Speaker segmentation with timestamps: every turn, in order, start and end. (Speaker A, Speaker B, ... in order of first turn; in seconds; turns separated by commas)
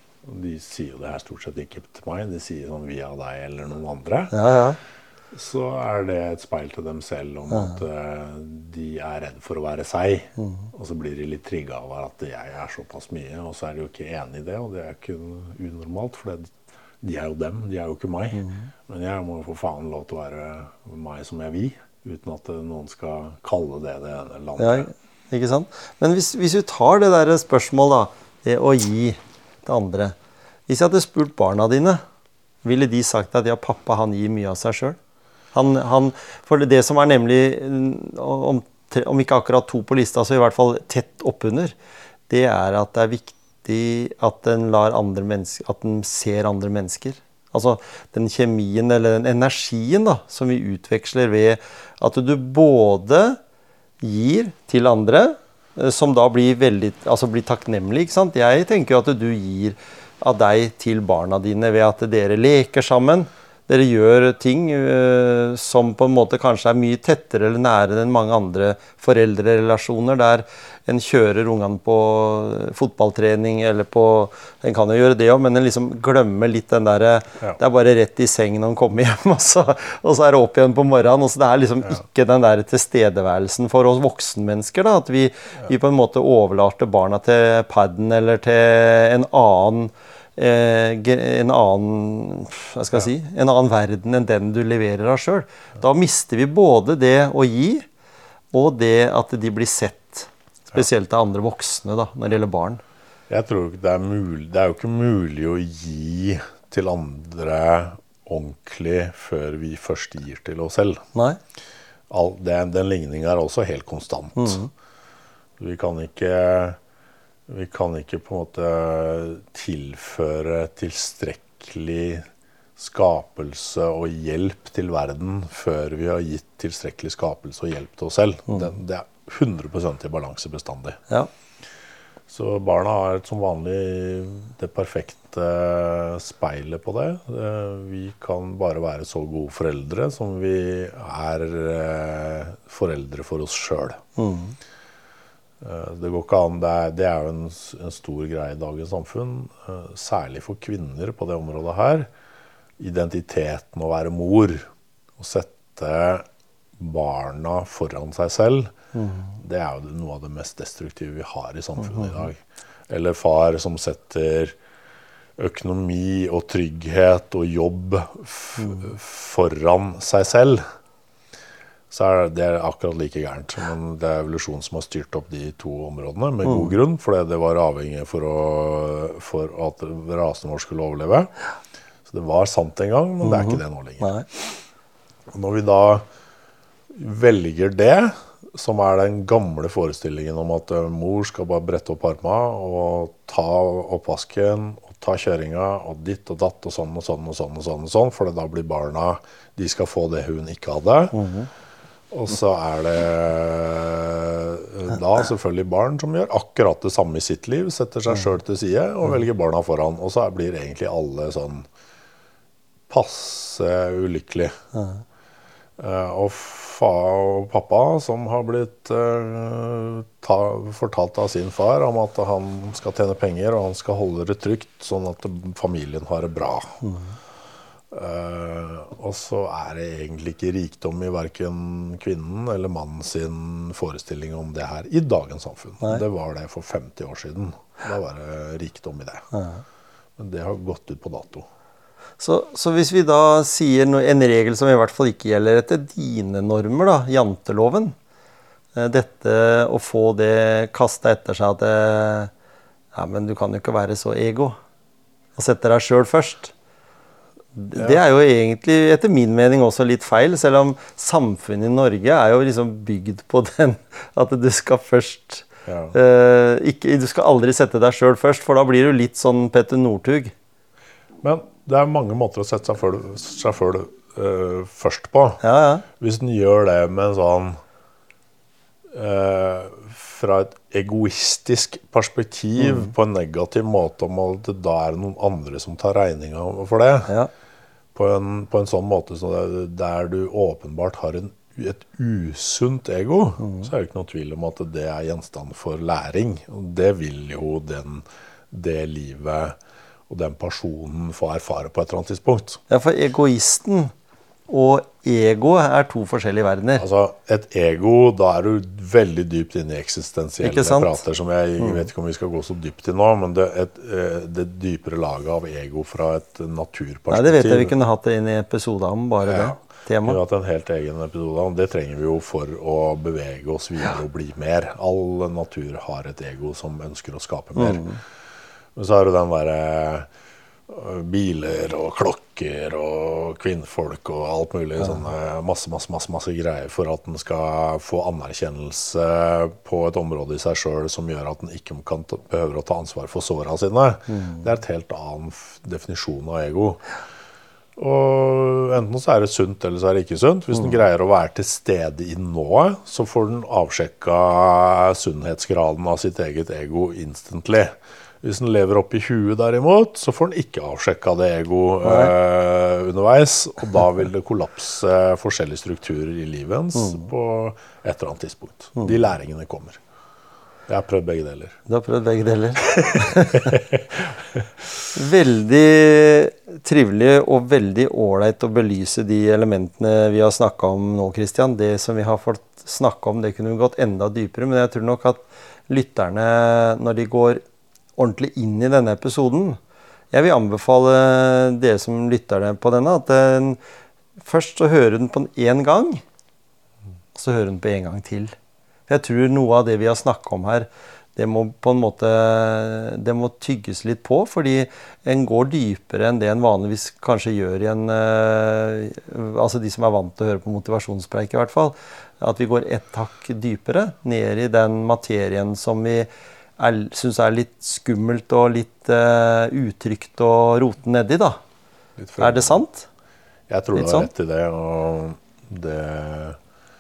Speaker A: 0.2-4.4, Speaker B: 4.3-4.8, Speaker A: 5.3-24.9, Speaker B: 10.4-10.7, Speaker B: 18.4-18.7, Speaker B: 24.6-30.1, Speaker B: 30.7-32.0, Speaker B: 32.6-35.0, Speaker B: 35.5-41.8, Speaker B: 42.3-53.4, Speaker B: 54.0-97.8, Speaker B: 98.5-102.8, Speaker A: 103.3-111.1, Speaker A: 112.1-114.6, Speaker B: 114.3-114.7, Speaker A: 115.6-116.8, Speaker A: 117.5-122.3, Speaker A: 122.8-131.0, Speaker A: 132.3-144.0, Speaker B: 144.2-144.6, Speaker A: 145.6-152.1, Speaker A: 152.8-156.3, Speaker A: 156.8-158.7, Speaker B: 158.9-159.3, Speaker A: 159.4-164.6, Speaker A: 165.4-170.6, Speaker A: 171.9-181.3, Speaker B: 176.4-176.7, Speaker A: 182.1-184.6, Speaker B: 183.2-184.3, Speaker A: 185.3-186.1, Speaker A: 186.9-201.2, Speaker B: 201.1-201.5, Speaker A: 202.1-211.7, Speaker A: 212.9-214.6, Speaker B: 214.7-215.0, Speaker A: 215.8-226.8, Speaker B: 226.8-227.1, Speaker A: 227.9-239.3, Speaker B: 239.3-239.6, Speaker A: 240.2-241.5, Speaker B: 242.2-247.9, Speaker B: 248.7-252.3, Speaker B: 252.9-254.6, Speaker B: 255.3-256.5, Speaker B: 257.6-270.3, Speaker A: 265.6-265.9, Speaker A: 271.2-277.6, Speaker B: 275.4-275.8, Speaker A: 278.9-287.1, Speaker A: 287.9-299.6, Speaker B: 293.4-293.7, Speaker A: 300.1-302.6, Speaker B: 302.7-303.9, Speaker B: 304.5-306.8, Speaker A: 306.8-317.7, Speaker B: 310.4-311.0, Speaker B: 311.6-311.9, Speaker B: 317.1-320.2, Speaker A: 319.2-328.0, Speaker B: 327.6-328.0, Speaker A: 328.7-330.1, Speaker A: 330.7-346.9, Speaker B: 344.1-344.4, Speaker A: 347.8-369.8, Speaker B: 361.8-362.1, Speaker A: 370.7-371.6, Speaker B: 371.7-373.6, Speaker A: 372.6-374.5, Speaker B: 374.9-387.4, Speaker B: 388.0-389.6, Speaker B: 390.1-393.6, Speaker B: 394.2-396.0, Speaker B: 397.1-398.4, Speaker B: 398.9-421.4, Speaker A: 422.0-422.6, Speaker B: 422.2-422.9, Speaker A: 423.5-426.4, Speaker B: 423.7-424.1